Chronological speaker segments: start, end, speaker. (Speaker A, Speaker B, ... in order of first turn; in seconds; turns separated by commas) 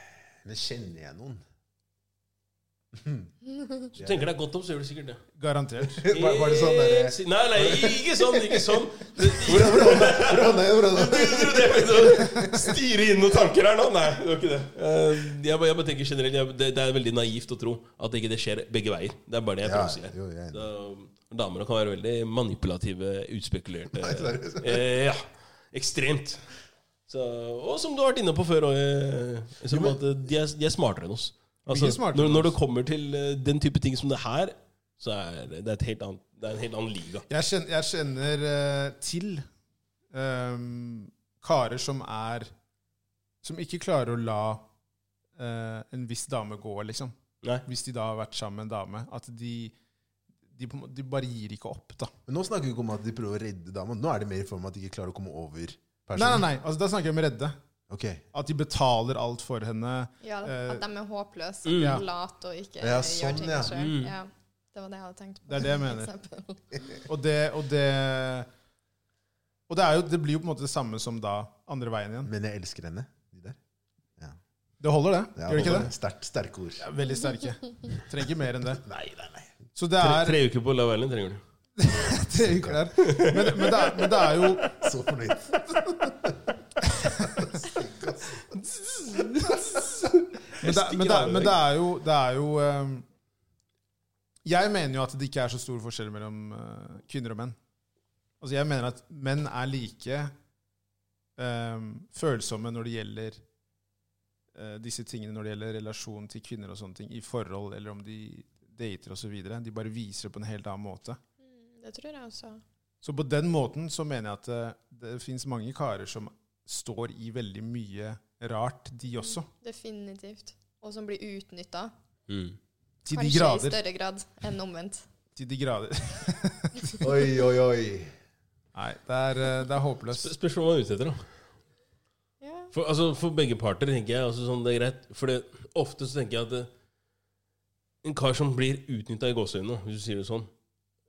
Speaker A: 0.4-1.4, Speaker A: 2.9-3.3, Speaker A: 4.0-4.2, Speaker B: 4.0-5.2, Speaker C: 5.4-6.0, Speaker A: 5.8-12.7, Speaker B: 6.1-26.4, Speaker A: 19.6-20.7, Speaker A: 23.9-24.9, Speaker B: 27.1-37.3, Speaker A: 29.7-30.0, Speaker C: 31.7-32.5, Speaker C: 37.3-39.5, Speaker C: 40.1-42.5, Speaker C: 43.4-44.7, Speaker C: 45.4-47.1, Speaker C: 47.6-49.8, Speaker C: 50.5-52.1, Speaker A: 52.3-56.5, Speaker C: 56.1-57.6, Speaker A: 57.9-58.2, Speaker C: 58.3-60.8, Speaker D: 60.2-66.8, Speaker B: 61.7-62.0, Speaker C: 61.8-62.0, Speaker A: 62.8-63.8, Speaker B: 63.7-64.1, Speaker C: 65.5-66.1, Speaker C: 67.1-68.5, Speaker C: 69.7-72.3, Speaker A: 72.2-73.6, Speaker C: 74.8-75.9, Speaker A: 75.4-76.9, Speaker C: 76.8-78.8, Speaker A: 78.8-79.5, Speaker C: 79.8-80.4, Speaker B: 80.0-81.4, Speaker C: 81.8-84.8, Speaker A: 82.4-82.8, Speaker B: 83.0-84.6, Speaker A: 84.7-86.4, Speaker C: 87.0-87.5, Speaker A: 87.2-88.4, Speaker B: 89.0-91.6, Speaker A: 89.5-89.8, Speaker C: 90.6-93.1, Speaker C: 94.5-97.6, Speaker C: 98.4-100.3, Speaker C: 101.4-103.4, Speaker C: 104.5-111.2, Speaker D: 111.4-112.6, Speaker C: 113.0-119.5, Speaker D: 119.2-121.9, Speaker B: 122.3-122.6, Speaker C: 123.0-123.8, Speaker D: 123.1-125.1, Speaker C: 125.4-127.1, Speaker A: 127.0-128.1, Speaker C: 128.7-130.3, Speaker B: 130.1-131.3, Speaker D: 132.4-132.7, Speaker B: 132.7-136.7, Speaker B: 138.0-140.5